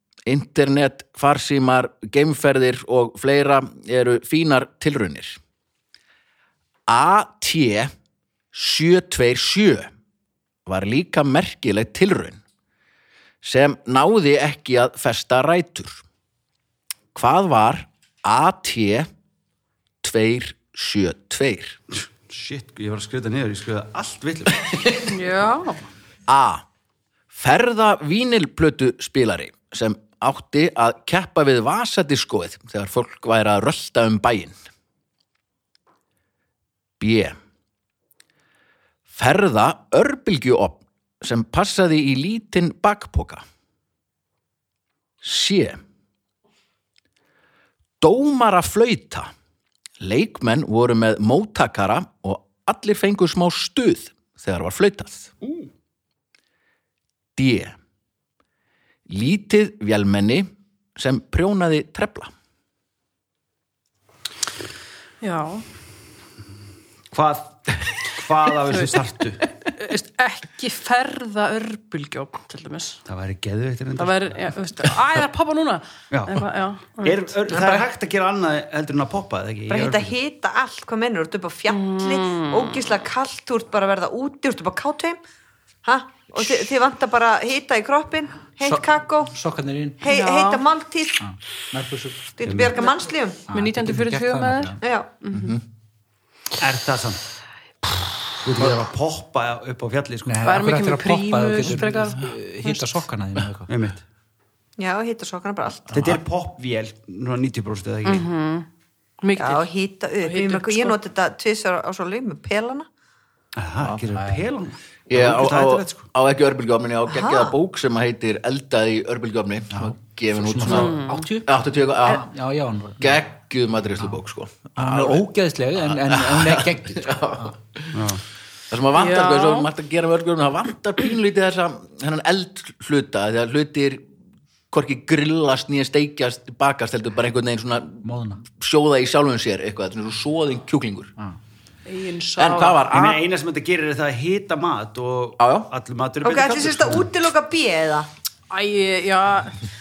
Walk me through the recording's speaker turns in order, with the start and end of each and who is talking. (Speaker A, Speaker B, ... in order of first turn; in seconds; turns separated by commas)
Speaker A: 0.2-5.4, Speaker A: 6.9-7.9, Speaker A: 8.5-9.9, Speaker A: 10.7-12.4, Speaker A: 13.4-16.0, Speaker A: 17.1-19.1, Speaker A: 20.0-21.8, Speaker B: 22.2-24.8, Speaker C: 25.1-25.8, Speaker A: 26.3-26.6, Speaker A: 27.3-34.6, Speaker A: 37.0-37.4, Speaker A: 39.1-43.4, Speaker A: 45.2-45.8, Speaker A: 48.0-49.3, Speaker A: 50.0-55.3, Speaker B: 55.4-55.7, Speaker A: 57.4-57.8, Speaker A: 59.1-62.3, Speaker C: 65.2-65.6, Speaker B: 67.1-69.4, Speaker C: 68.7-69.0, Speaker C: 69.8-73.0, Speaker B: 73.1-74.4, Speaker C: 74.0-77.8, Speaker B: 76.1-76.5, Speaker B: 77.0-80.1, Speaker D: 79.7-85.2, Speaker C: 81.7-82.8, Speaker D: 85.8-89.3, Speaker E: 88.6-90.0, Speaker D: 90.0-91.2, Speaker C: 90.1-90.6, Speaker E: 91.2-92.3, Speaker D: 92.4-93.4, Speaker B: 92.4-92.8, Speaker E: 93.5-94.8, Speaker C: 93.5-95.5, Speaker D: 94.8-95.1, Speaker A: 95.3-95.6, Speaker B: 96.6-97.2, Speaker B: 98.4-100.7, Speaker E: 100.2-103.7, Speaker C: 100.4-102.9, Speaker B: 103.7-104.0, Speaker D: 104.8-106.0, Speaker B: 105.9-108.3, Speaker C: 108.0-108.7, Speaker C: 109.2-109.7, Speaker D: 109.3-112.9, Speaker C: 110.2-111.0, Speaker B: 113.5-116.1, Speaker A: 115.1-122.2, Speaker D: 117.1-117.5, Speaker E: 119.8-121.5, Speaker C: 120.7-121.2, Speaker E: 122.0-123.2, Speaker A: 123.0-125.2, Speaker E: 124.8-127.5, Speaker A: 125.8-128.0, Speaker B: 127.9-128.2, Speaker A: 128.7-134.0, Speaker C: 128.9-129.7, Speaker A: 134.7-141.1, Speaker E: 138.0-138.4, Speaker C: 141.8-142.8, Speaker A: 142.4-143.2, Speaker B: 142.9-147.1, Speaker A: 145.4-145.7, Speaker D: 146.2-148.1, Speaker C: 148.5-149.6